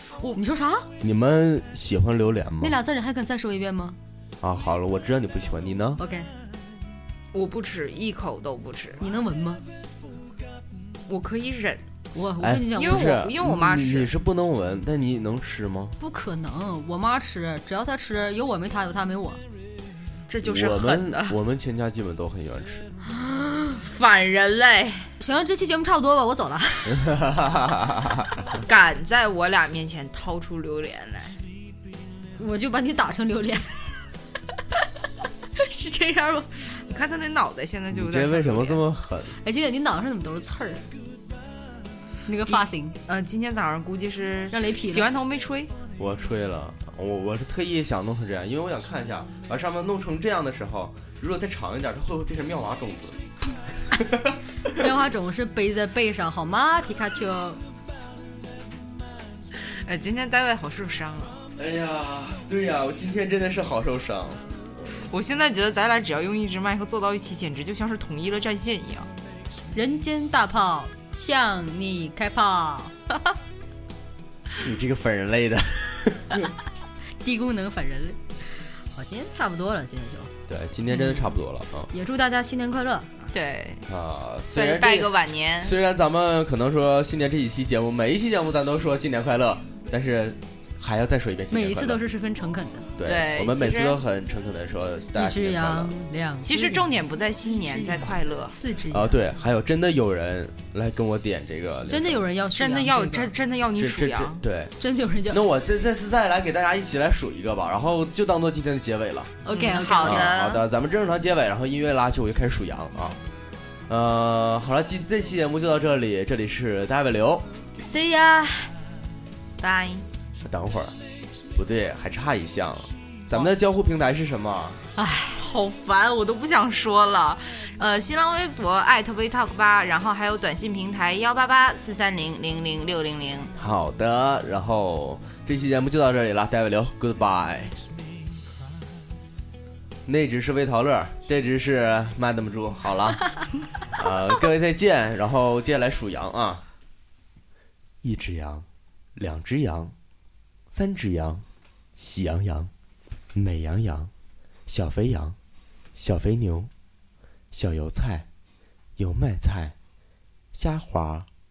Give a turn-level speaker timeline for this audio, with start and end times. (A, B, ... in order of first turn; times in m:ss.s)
0:00.3-0:00.9 A
0:01.0-0:02.8 B
0:02.6-0:04.0 A
0:04.4-0:06.0 B
0:06.0-0:06.3 A
0:07.3-0:09.0 C
0:09.0-0:09.6 A
0:11.1-0:11.8 C
0:12.1-0:13.1 A
0:12.4-0:15.9 B
0:12.8-0:14.1 C
0:16.0-0:19.4 A
0:20.3-0:21.4 C
0:20.4-0:22.9 B
0:23.2-0:23.8 A
0:23.8-0:25.1 C
0:25.2-0:27.1 A
0:26.9-0:28.6 B
0:28.6-0:31.4 C
0:32.4-0:33.9 A
0:35.6-0:36.6 A
0:36.9-0:38.8 C
0:37.9-0:39.4 B
0:39.4-0:40.9 A
0:42.3-0:43.0 A
0:42.5-0:45.7 C
0:44.5-0:45.1 A
0:46.0-0:53.2 B
0:53.9-0:54.4 B
0:54.7-0:57.6 A
0:59.7-1:01.4 C
1:01.6-1:04.4 B
1:05.0-1:09.1 C
1:09.7-1:12.9 A
1:14.6-1:16.5 B
1:17.2-1:20.3 A
1:20.5-1:21.9 B
1:21.9-1:23.1 A
1:23.3-1:23.8 C
1:23.9-1:32.0 B
1:24.5-1:25.8 C
1:31.5-1:32.9 A
1:33.0-1:35.9 B
1:33.0-1:34.0 C
1:35.1-1:36.9 A
1:36.4-1:38.6 C
1:37.7-1:39.1 A
1:38.9-1:42.2 B
1:41.9-1:43.3 A
1:42.5-1:44.4 C
1:43.8-1:44.7 B
1:44.8-1:45.4 A
1:45.3-1:49.4 B
1:49.4-1:50.3 A
1:49.5-1:50.6 C
1:50.0-1:53.2 B
1:53.9-1:57.4 B
1:57.8-1:58.7 A
1:59.6-2:00.1 C
2:00.4-2:00.9 B
2:01.6-2:04.8 B
2:05.0-2:05.4 A
2:05.4-2:13.5 C
2:13.6-2:17.8 B
2:20.1-2:23.3 B
2:23.9-2:26.6 B
2:28.0-2:29.9 B
2:30.7-2:31.4 B
2:32.0-2:32.7 B
2:33.4-2:34.1 B
2:34.7-2:35.4 B
2:36.0-2:36.7 B
2:37.5-2:38.2 B
2:39.0-2:39.7 B
2:40.5-2:41.3 B